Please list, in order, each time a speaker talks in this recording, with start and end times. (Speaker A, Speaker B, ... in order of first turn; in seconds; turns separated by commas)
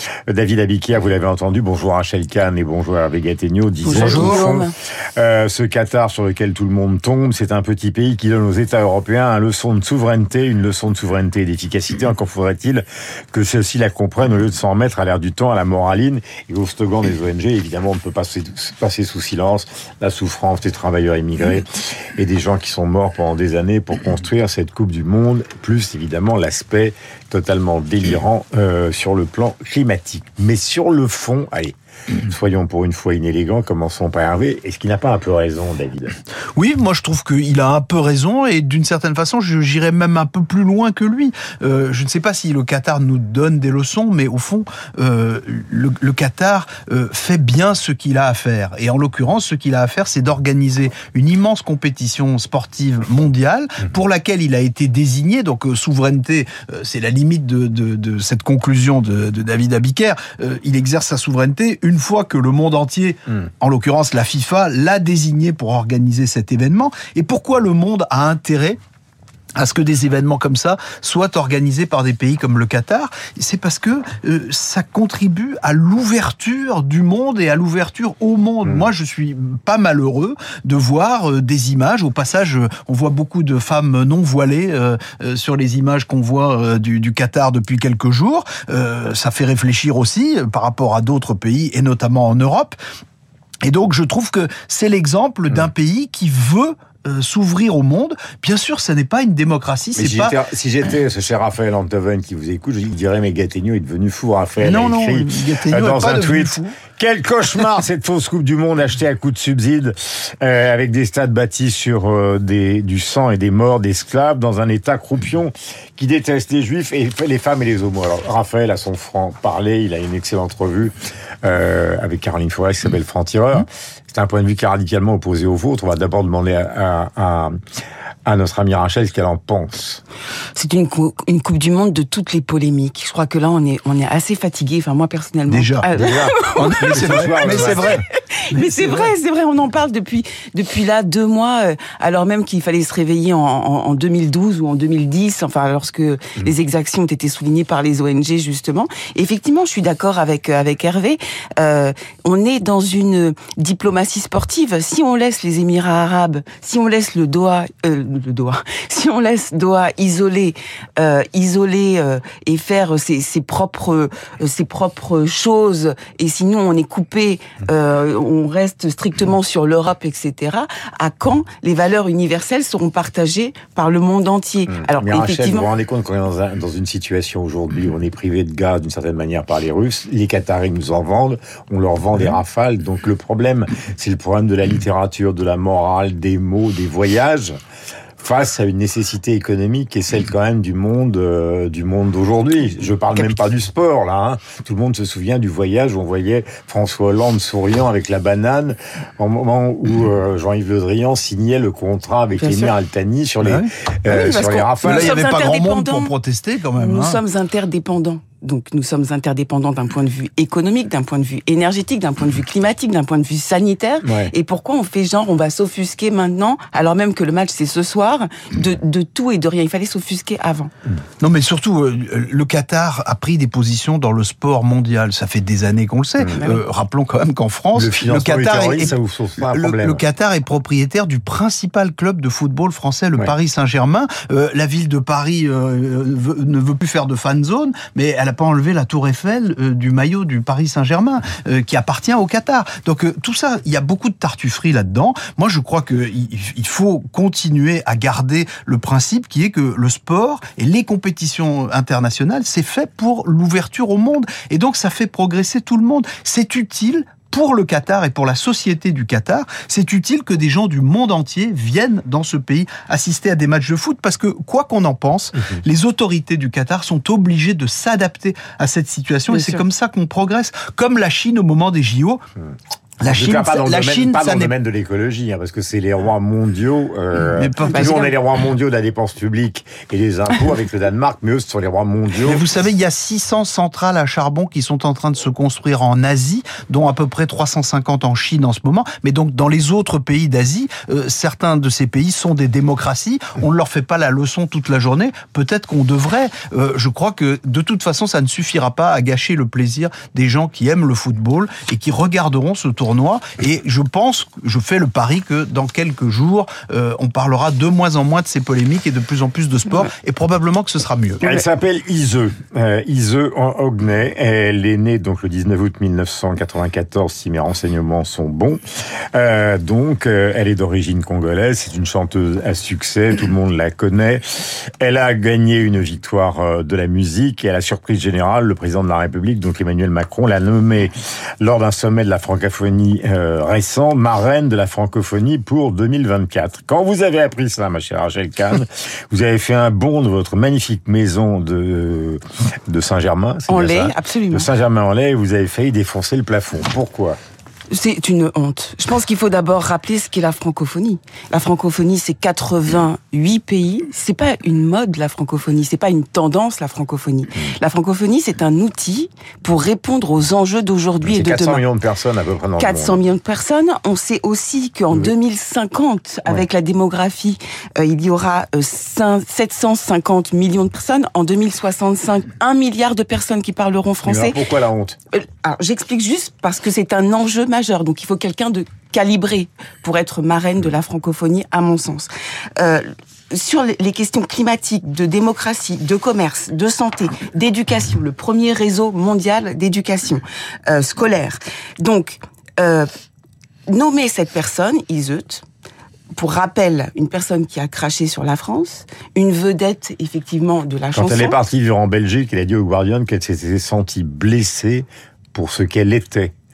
Speaker A: 0.3-36.1, Speaker B: 3.8-4.7, Speaker C: 3.9-4.4, Speaker C: 36.5-68.8, Speaker C: 69.5-92.8, Speaker C: 93.6-100.4, Speaker A: 100.0-127.5, Speaker C: 104.6-106.8, Speaker A: 128.2-130.0, Speaker B: 130.5-175.7, Speaker C: 135.5-135.9, Speaker A: 135.9-138.0, Speaker C: 136.5-139.1, Speaker A: 174.7-187.6, Speaker A: 188.2-205.2, Speaker B: 202.4-202.7, Speaker C: 203.4-203.7, Speaker B: 204.1-206.1, Speaker C: 204.8-207.2, Speaker B: 206.7-220.7, Speaker A: 214.0-214.3, Speaker C: 221.2-272.2, Speaker B: 226.3-226.6, Speaker A: 227.7-230.0, Speaker B: 269.3-269.6, Speaker C: 273.0-274.5, Speaker A: 273.0-282.4, Speaker C: 277.3-278.1, Speaker B: 277.7-278.0, Speaker C: 282.2-311.2, Speaker A: 311.2-318.6, Speaker A: 319.1-347.2, Speaker B: 343.5-344.5, Speaker B: 347.7-361.6, Speaker A: 361.0-363.0, Speaker B: 362.6-374.4, Speaker A: 374.0-375.0, Speaker B: 375.1-392.9, Speaker B: 393.7-395.4, Speaker B: 396.1-401.4, Speaker A: 400.9-406.3